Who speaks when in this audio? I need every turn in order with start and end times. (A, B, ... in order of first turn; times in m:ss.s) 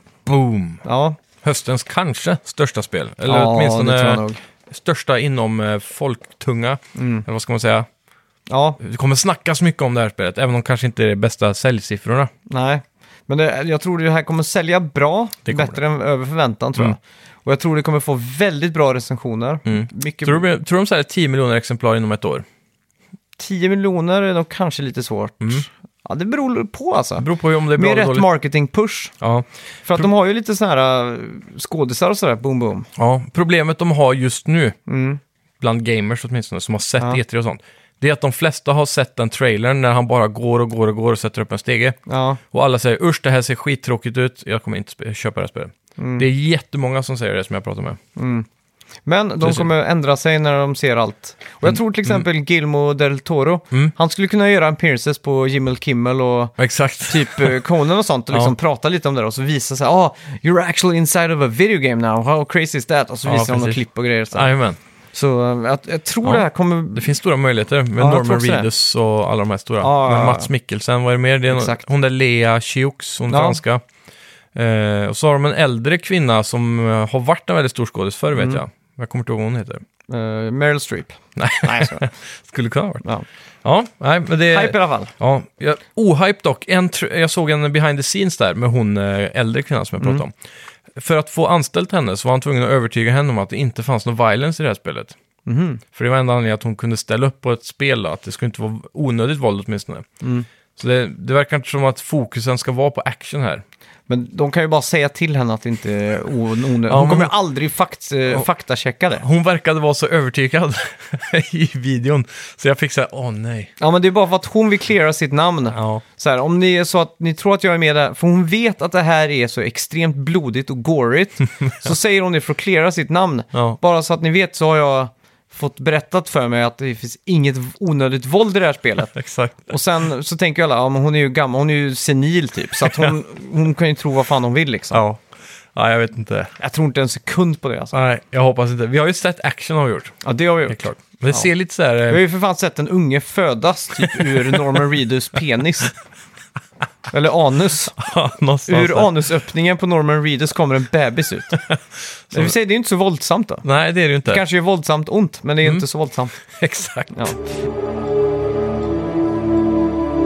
0:00.2-0:00.8 A
0:00.8-0:01.2 B
0:01.4-0:07.9 A
0:03.3-0:04.4 B
0:06.9-0:07.2 B
0:08.5-0:08.8 B
0:08.8-0:12.3 A
0:12.5-0:20.4 B
0:15.5-0:15.8 A
0:19.7-0:22.4 A
0:23.4-0:29.1 B
0:27.2-0:28.3 A
0:29.2-0:30.1 A
0:29.8-0:32.9 B
0:33.0-0:34.8 A
0:34.9-0:35.2 B
0:35.6-0:42.0 A
0:42.1-0:42.4 B
0:42.5-0:48.0 A
0:46.0-0:46.3 B
0:48.2-0:48.5 B
0:49.0-0:56.6 B
0:49.4-0:49.7 A
0:51.7-0:52.2 A
0:56.6-0:57.6 A
0:57.1-1:04.5 B
1:03.2-1:03.8 A
1:04.3-1:04.8 A
1:05.1-1:07.1 B
1:06.9-1:13.8 A
1:08.0-1:08.7 B
1:09.8-1:10.5 B
1:11.5-1:11.8 B
1:13.3-1:13.6 B
1:14.5-1:19.8 A
1:18.3-1:18.6 B
1:20.1-1:22.0 B
1:21.4-1:23.0 A
1:23.6-1:30.3 A
1:24.5-1:25.1 B
1:30.9-1:35.2 A
1:35.4-1:35.8 B
1:35.9-1:40.0 A
1:40.2-1:40.5 B
1:40.8-1:43.6 A
1:44.1-1:49.2 B
1:46.9-1:47.3 A
1:49.2-1:53.7 A
1:53.8-2:09.1 B
1:55.7-1:56.0 A
2:03.5-2:03.8 A
2:09.1-2:09.7 A
2:09.7-2:15.1 B
2:12.8-2:13.1 A
2:14.9-2:15.2 A
2:15.7-2:16.5 A
2:16.6-2:18.0 B
2:17.9-2:22.2 A
2:20.2-2:21.5 B
2:22.1-2:25.9 B
2:24.0-2:24.8 A
2:27.1-2:28.0 B
2:28.0-2:29.2 A
2:28.7-2:31.6 B
2:32.3-2:33.6 B
2:33.6-2:34.4 A
2:34.2-2:36.4 B
2:36.4-2:37.3 A
2:37.1-2:37.4 B